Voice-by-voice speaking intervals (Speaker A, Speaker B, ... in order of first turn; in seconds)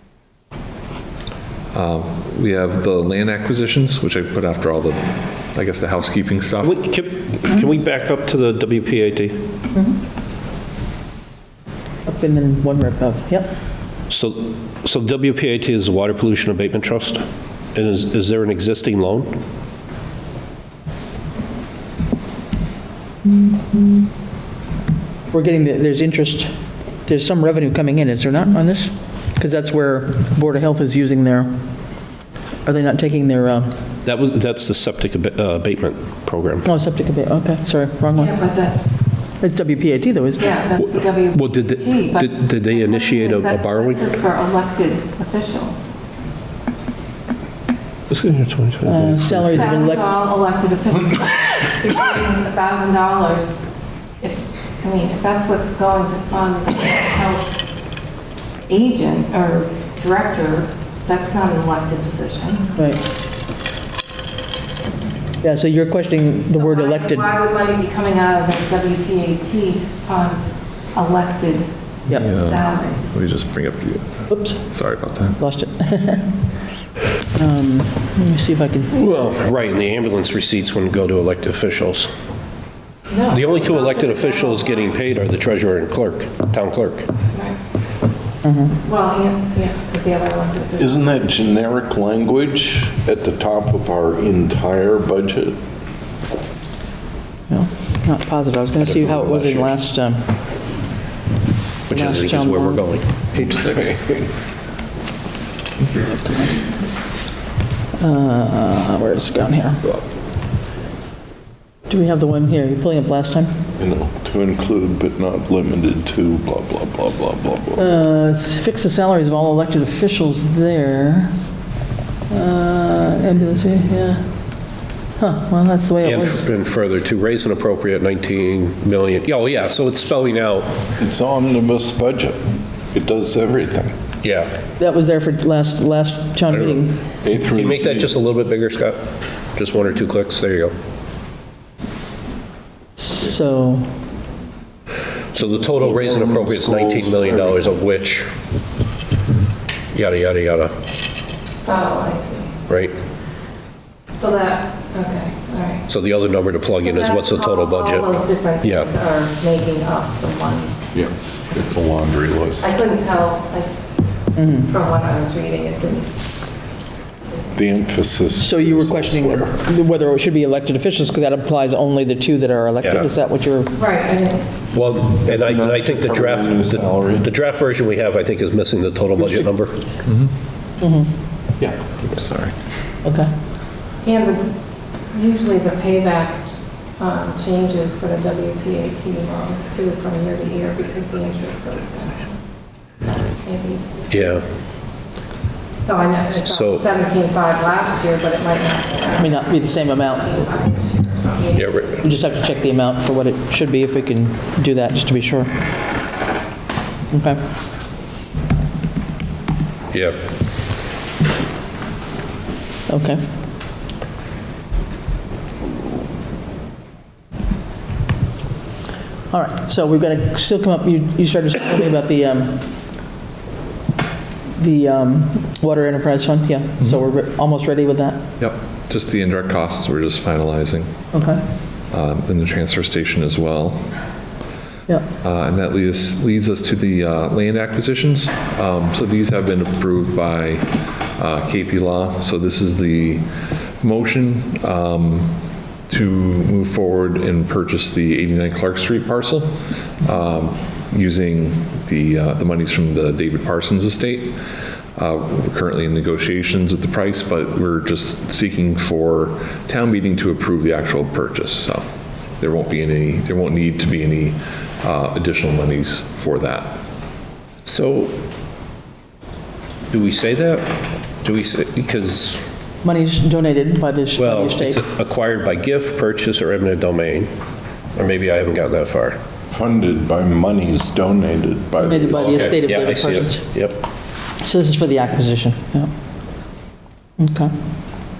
Speaker A: 1.7-6.8, 72.1-75.4, 180.0-180.3, 181.9-182.5, 228.4-230.9, 231.9-234.0, 235.2-243.2, 243.8-245.4, 245.9-254.3, 255.0-261.8, 262.4-266.8
Speaker B: 6.6-9.4, 14.1-19.4, 34.0-36.6, 40.8-44.2, 48.1-49.7, 78.9-82.1, 83.3-87.1, 98.8-99.8, 101.9-103.6, 126.0-130.8, 134.2-134.5, 136.5-136.8, 137.3-139.0, 139.5-140.7, 145.3-148.3, 149.9-150.7, 152.7-152.9, 155.9-158.9, 172.8-173.1, 174.7-179.9, 194.1-194.4, 196.4-196.9, 201.5-202.0, 267.6-268.2, 269.9-270.7, 271.2-272.4, 274.2-277.3, 277.9-279.2, 282.2-283.8
Speaker C: 12.0-13.5, 25.3-26.5, 27.0-31.7, 32.6-33.8, 36.6-38.3, 39.4-40.6, 48.8-50.1, 62.8-63.0, 65.4-67.3, 74.3-74.6, 75.4-76.4, 77.3-78.9, 88.4-88.8, 97.5-100.4, 101.9-102.9, 106.0-106.5, 108.0-109.9, 111.9-113.5, 117.8-121.4, 122.3-126.4, 134.8-137.0, 143.0-144.0, 164.3-164.7, 168.3-173.8, 180.8-181.1, 183.0-183.3, 199.2-200.4, 202.0-205.5, 207.1-207.4, 212.9-213.2, 219.3-222.9, 224.6-228.2, 231.1-231.4, 272.8-274.8, 281.8-283.5, 284.4-285.9, 287.2-287.6
Speaker D: 38.1-39.0, 40.4-46.0, 49.5-53.6, 54.2-57.6, 58.7-62.7, 66.5-73.1, 83.1-84.9, 87.3-87.6, 88.8-91.0, 151.6-152.6, 154.1-155.8, 156.8-160.8, 162.6-166.2, 173.7-174.6, 184.0-192.3, 193.4-194.3, 195.8-202.1
Speaker E: 90.8-95.6, 103.3-104.3, 113.8-117.9, 131.0-133.9, 137.2-138.2, 145.6-147.7, 160.9-162.7, 167.5-169.5, 175.2-177.3, 279.5-282.6